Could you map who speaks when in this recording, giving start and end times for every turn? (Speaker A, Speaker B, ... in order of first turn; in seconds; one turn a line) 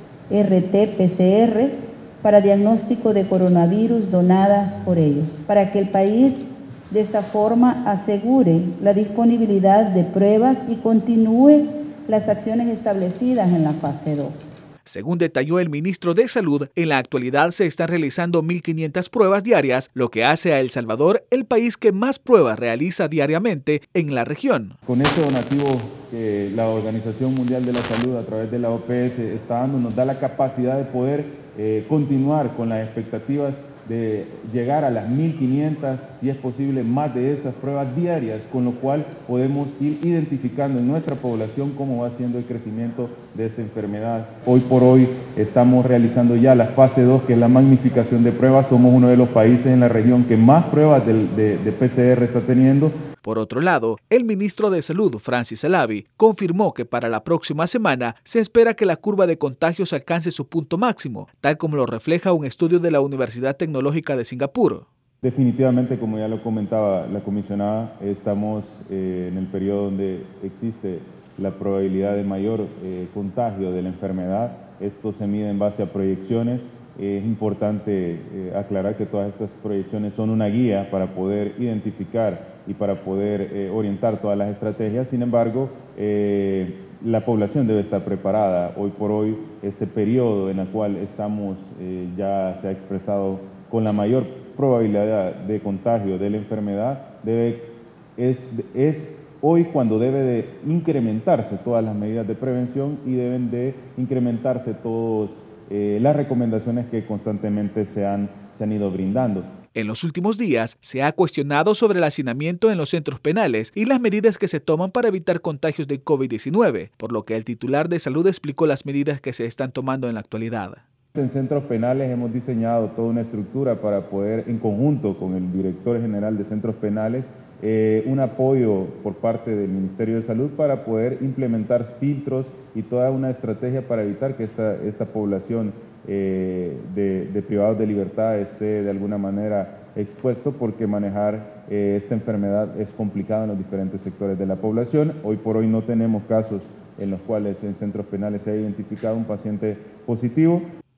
Speaker A: 0.3-14.4
Speaker B: 14.9-24.8
Speaker C: 24.9-53.0
Speaker B: 53.2-64.9
Speaker C: 65.2-109.5
Speaker B: 109.8-120.8
Speaker C: 121.2-150.6